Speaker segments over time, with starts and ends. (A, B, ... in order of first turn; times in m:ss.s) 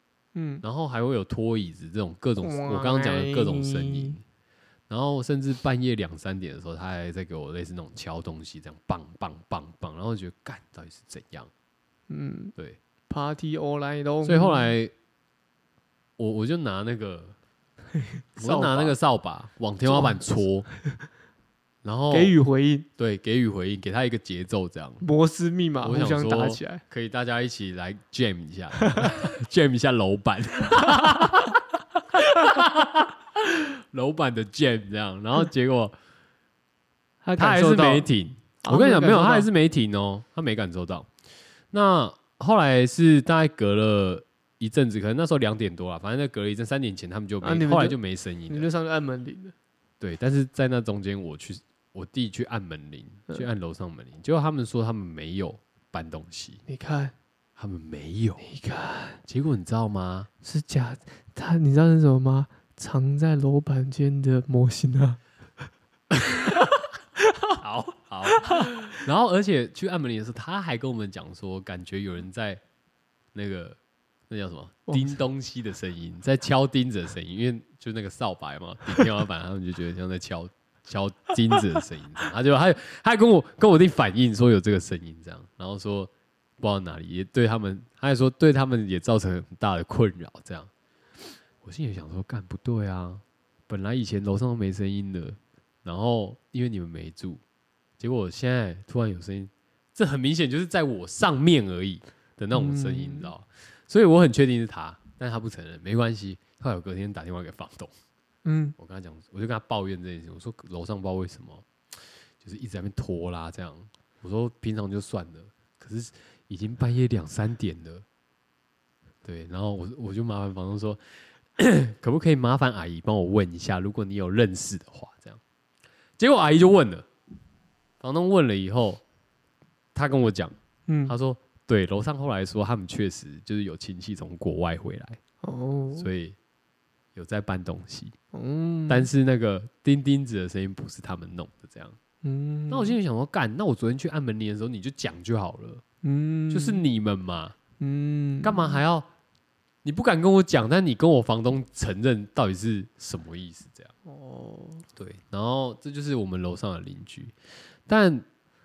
0:00.3-0:00.6 A
0:00.6-0:04.2 B
0:02.4-0:04.2 A
0:04.9-0:11.5 B
0:12.1-0:12.5 A
0:13.1-0:14.7 A
0:14.2-0:14.9 B
0:16.2-0:17.3 B
0:17.9-0:19.0 A
0:18.4-0:20.7 B
0:19.8-0:20.2 A
0:21.8-0:22.3 B
0:22.1-0:22.9 A
0:23.0-0:25.0 B
0:25.0-0:26.8 A
0:25.8-0:31.6 B
0:32.1-0:35.9 B
0:37.2-0:38.1 A
0:37.4-0:41.1 B
0:38.6-0:39.5 A
0:41.7-0:48.7 B
0:47.4-0:49.5 A
0:50.0-0:56.6 B
0:56.7-0:57.1 A
0:57.6-0:58.5 B
0:58.4-0:59.2 A
0:59.2-1:00.3 B
1:00.4-1:05.2 A
1:07.2-1:07.6 A
1:07.6-1:12.6 B
1:08.4-1:08.7 A
1:13.3-1:13.8 B
1:14.3-1:30.7 B
1:14.9-1:15.2 A
1:31.6-1:37.4 B
1:38.0-1:47.9 B
1:42.5-1:43.3 A
1:48.4-1:48.8 A
1:48.8-1:58.0 B
1:59.2-2:01.0 B
2:01.6-2:05.4 B
2:06.2-2:07.0 B
2:08.0-2:09.0 B
2:09.9-2:10.6 B
2:10.9-2:11.1 A
2:11.1-2:15.2 B
2:15.4-2:16.1 A
2:16.0-2:16.4 B
2:17.1-2:18.1 B
2:18.3-2:19.1 A
2:18.9-2:22.0 B
2:22.2-2:23.0 A
2:22.7-2:25.8 B
2:26.0-2:26.8 A
2:26.5-2:27.6 B
2:27.8-2:28.8 A
2:28.4-2:29.1 B
2:29.8-2:33.9 B
2:34.0-2:34.8 A
2:34.9-2:37.3 B
2:37.9-2:38.2 B